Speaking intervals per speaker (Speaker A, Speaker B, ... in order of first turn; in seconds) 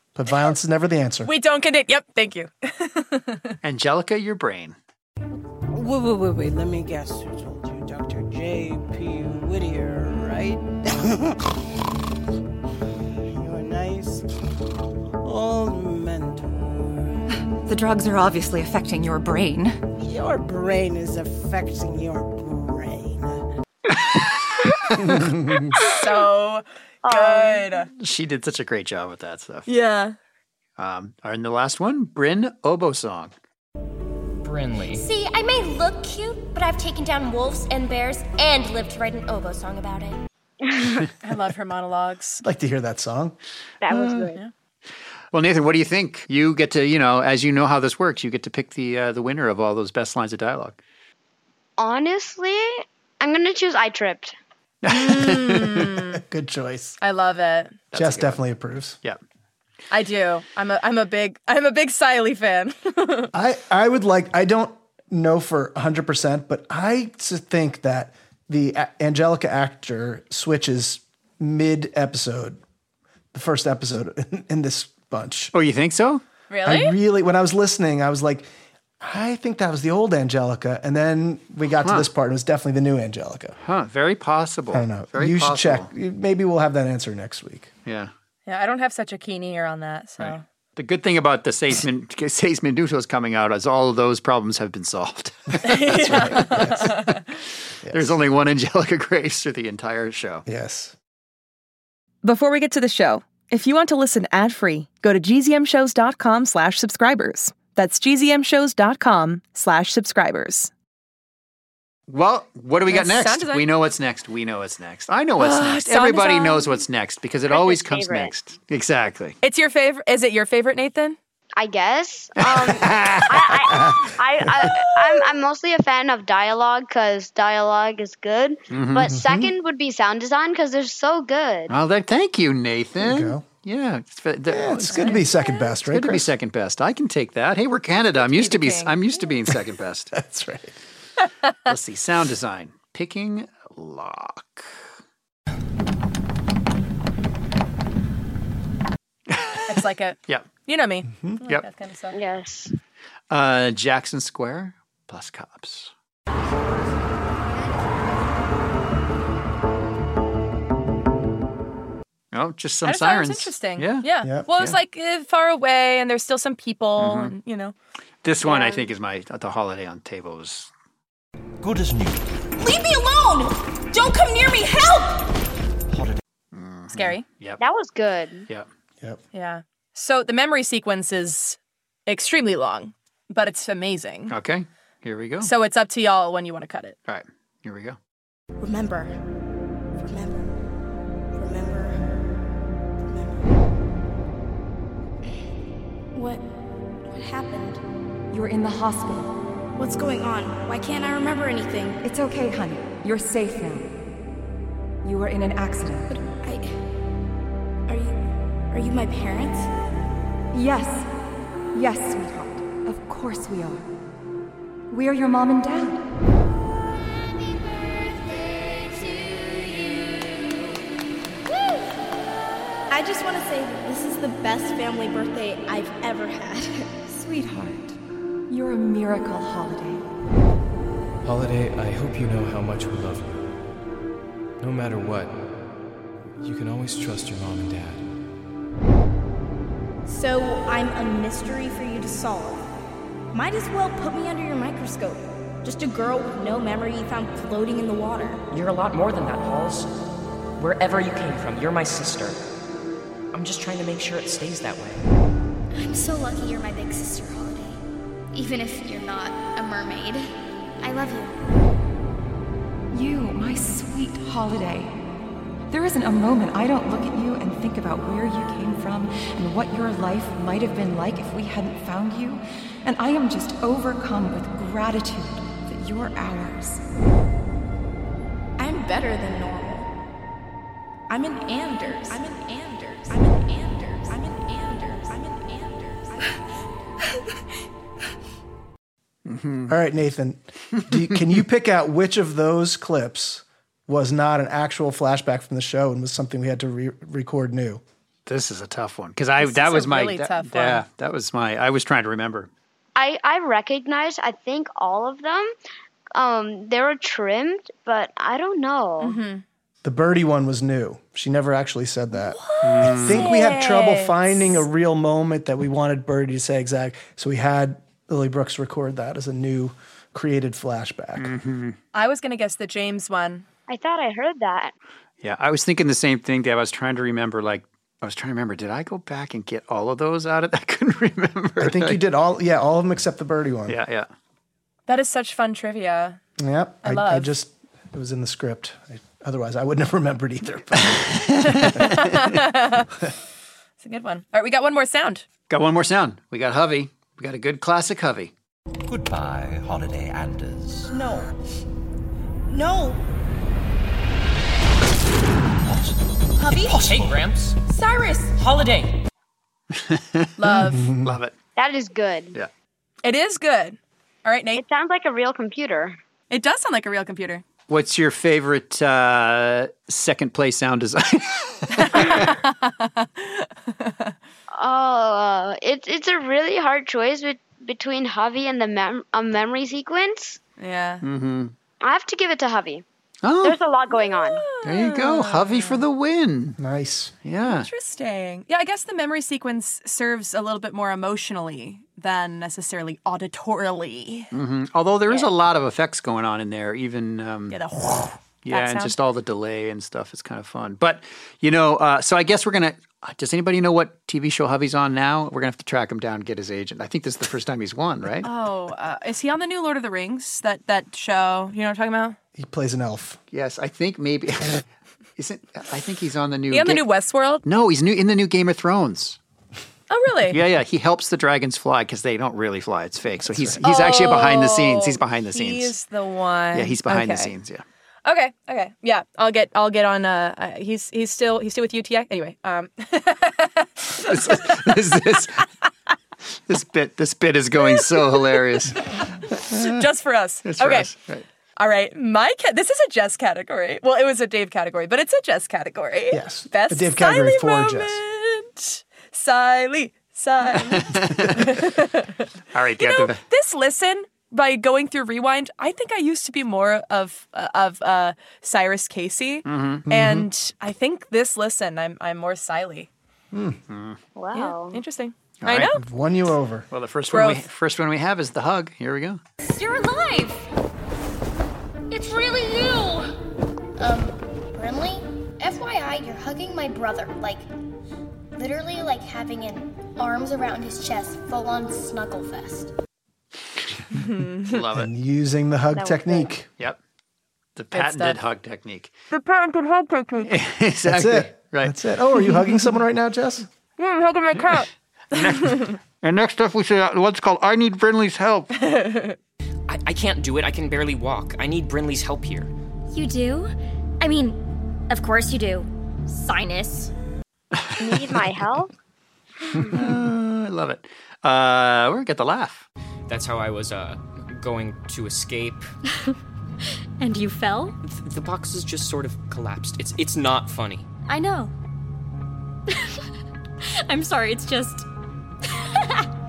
Speaker A: 0.1-1.3, 25.2-25.5, 42.4-43.4, 56.1-57.0, 57.9-59.0, 63.3-72.6, 73.3-75.5, 76.6-78.5, 79.0-83.6, 84.7-87.7, 96.0-97.1, 97.8-98.2, 100.5-100.9, 129.1-129.5, 133.0-133.5, 134.5-136.3, 140.1-140.8, 289.7-297.8, 309.8-321.4, 331.6-333.8, 336.4-341.4, 360.5-361.1, 386.6-387.1, 412.4-413.2, 423.2-423.6, 446.1-448.0, 459.9-460.3, 463.3-463.6, 465.7-466.7, 484.7-486.5, 490.9-493.5
Speaker B: 1.2-3.5, 25.8-27.9, 29.7-30.2, 41.2-42.4, 54.9-56.2, 57.0-57.8, 59.9-63.3, 76.5-77.0, 88.5-90.4, 95.6-97.2, 102.2-110.7, 112.9-113.7, 115.4-116.8, 119.4-121.2, 134.9-135.7, 138.2-139.0, 149.7-152.2, 162.8-167.7, 168.4-168.8, 176.9-177.2, 179.3-184.3, 185.4-187.0, 299.4-300.8, 309.0-309.4, 312.3-314.6, 321.9-323.4, 334.9-336.2, 336.8-337.3, 341.4-342.9, 343.8-345.2, 360.4-360.9, 363.0-364.6, 366.3-367.4, 371.7-374.1, 380.6-381.1, 383.9-385.8, 387.4-394.3, 397.5-399.0, 408.2-412.2, 416.5-417.4, 419.9-420.4, 423.6-427.3, 428.1-434.5, 438.0-440.9, 441.6-452.2, 452.8-462.9, 464.3-465.8, 467.1-467.5, 483.9-484.5, 487.7-488.2, 489.1-490.3, 493.8-494.7, 495.4-495.7, 498.6-499.2
Speaker C: 3.6-4.8, 24.3-25.3, 28.0-29.7, 30.8-33.3, 43.9-44.2, 45.3-50.8, 54.8-56.0, 57.9-58.4, 75.5-76.2, 81.8-82.1, 83.6-85.9, 87.8-88.1, 90.2-96.9, 97.9-100.5, 112.1-119.4, 122.4-124.0, 128.7-129.1, 131.7-135.2, 135.8-140.1, 141.7-144.7, 149.3-150.5, 153.3-155.9, 162.3-164.1, 167.0-167.3, 168.2-170.7, 176.5-177.6, 184.3-185.5, 187.1-188.0, 289.2-289.8, 298.3-302.5, 312.6-313.3, 321.2-321.8, 325.2-332.0, 333.7-334.1, 340.8-342.2, 345.5-348.3, 359.7-360.3, 361.0-361.3, 367.7-372.3, 381.0-381.5, 383.2-383.6, 384.6-386.6, 387.2-387.7, 394.3-397.6, 398.4-408.3, 413.3-414.6, 415.2-416.9, 417.4-419.2, 420.3-425.7, 426.5-427.6, 434.1-435.4, 436.5-438.9, 440.4-441.2, 450.7-451.7, 452.5-453.2, 459.5-459.9, 463.7-464.0, 465.4-465.7, 466.7-469.2, 484.4-484.9, 487.6-488.9, 490.2-491.8, 495.1-498.5, 507.6-508.3, 509.7-512.7
Speaker D: 5.7-11.3, 13.3-14.3, 15.2-17.1, 20.0-23.4
Speaker E: 17.5-19.8, 198.3-199.3, 202.0-203.9, 205.0-206.2, 210.5-211.1, 211.7-213.9, 214.9-216.0, 227.1-230.1, 262.9-265.0, 265.7-276.8
Speaker F: 27.0-27.7, 43.8-44.4, 51.8-54.4, 117.5-118.3, 121.6-131.7, 152.1-152.7, 177.6-178.5, 303.0-305.5, 306.1-309.2, 323.7-324.7, 361.6-362.4, 364.6-366.0, 374.6-380.4, 381.8-382.8, 383.4-384.4, 464.2-464.8, 485.7-486.3, 507.8-508.7
Speaker G: 34.4-35.1, 248.5-250.1, 250.6-252.4, 253.3-255.0, 356.6-357.6, 358.3-359.0, 499.7-502.5, 513.1-515.6, 517.8-520.9
Speaker H: 34.9-40.2, 218.7-220.0, 469.5-470.5, 471.9-473.1, 502.9-506.9, 517.0-517.8, 521.1-521.5, 522.7-523.0, 523.7-524.9, 525.5-526.1
Speaker I: 171.6-172.2, 175.9-176.2, 348.9-350.9, 355.6-356.0
Speaker J: 172.6-175.3, 188.6-189.1, 190.0-190.5, 191.3-192.1, 193.1-193.4, 196.1-196.4, 197.1-197.8, 199.8-202.0, 206.4-206.7, 207.9-208.2, 208.7-209.7, 222.9-226.9, 240.1-242.7, 243.3-248.4, 258.4-260.2, 278.6-279.9, 281.1-286.4, 350.9-351.3, 352.5-353.0, 356.4-356.9, 357.7-358.3
Speaker K: 231.2-233.5, 234.6-235.6, 236.4-238.1
Speaker L: 255.8-257.8, 260.8-261.3, 473.8-477.4, 478.4-482.7